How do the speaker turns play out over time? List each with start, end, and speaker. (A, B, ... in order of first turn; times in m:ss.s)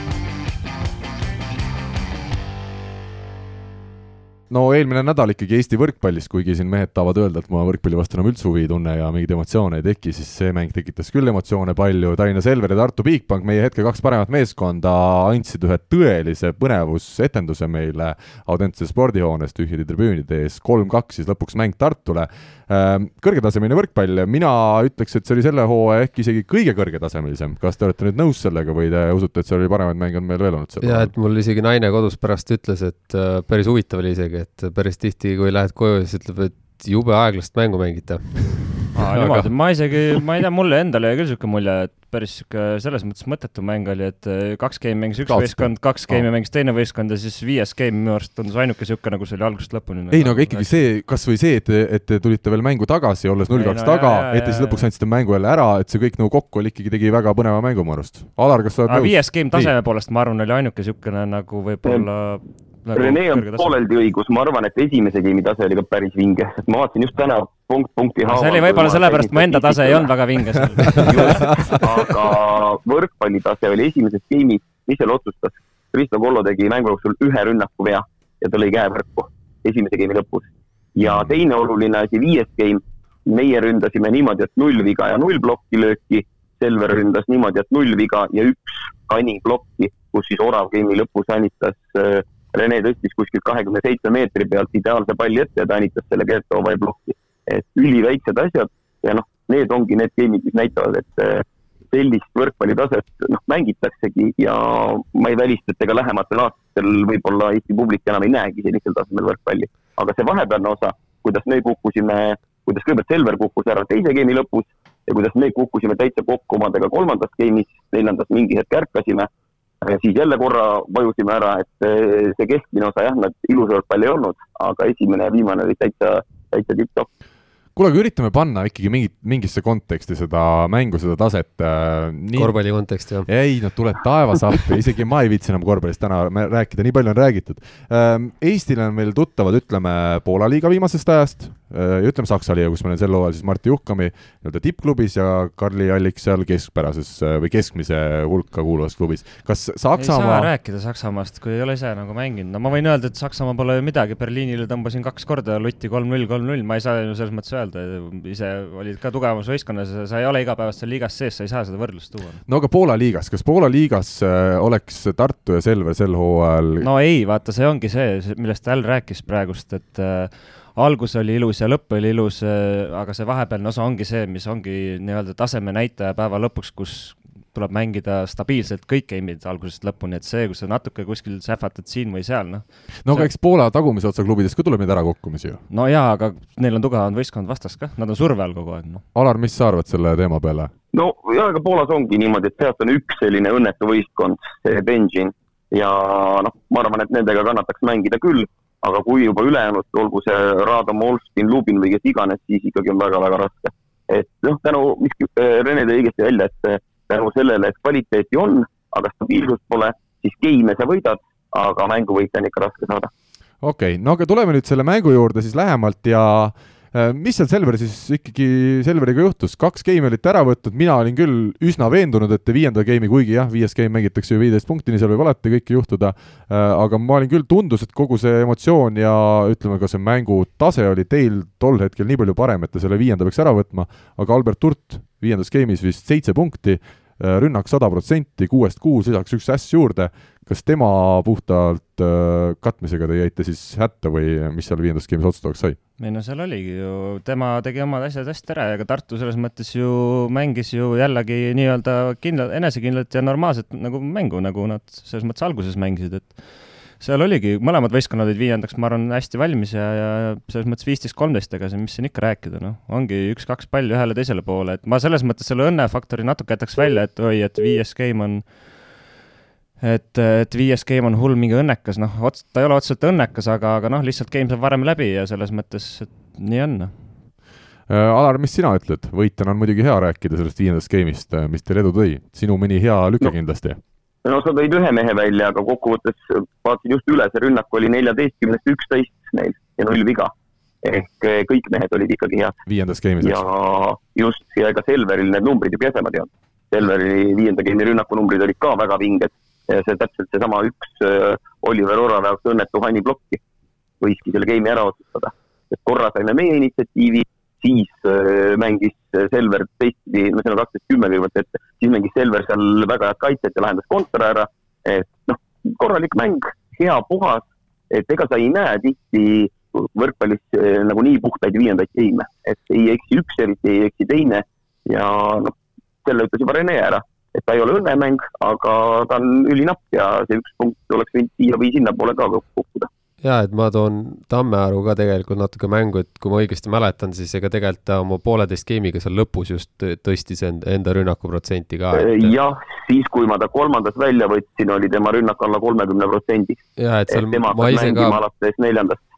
0:04.5-0:31.1 A
0:30.8-0:39.5 B
0:38.9-0:50.8 C
0:45.2-0:46.3 A
0:50.1-0:59.7 A
0:53.5-0:54.8 C
0:58.9-1:03.8 C
1:03.0-1:10.1 D
1:08.3-1:11.8 C
1:10.8-1:59.3 D
1:11.0-1:11.5 A
1:21.0-1:21.4 A
1:59.8-2:07.1 D
2:07.8-2:12.6 A
2:12.4-2:13.3 B
2:13.2-2:30.5 A
2:30.0-2:42.4 C
2:42.5-2:46.9 A
2:46.8-3:03.3 C
3:03.0-3:05.6 A
3:05.7-3:09.0 C
3:09.1-3:10.7 A
3:10.9-3:33.1 D
3:33.6-4:05.8 A
4:06.0-4:29.0 C
4:29.8-4:37.0 C
4:37.9-4:43.8 A
4:44.2-4:50.3 D
4:50.8-4:52.6 D
4:52.7-4:53.4 A
4:53.2-5:03.4 D
5:04.0-5:25.5 D
5:26.0-5:32.9 D
5:33.2-5:42.4 B
5:42.0-5:49.0 D
5:46.8-5:48.2 B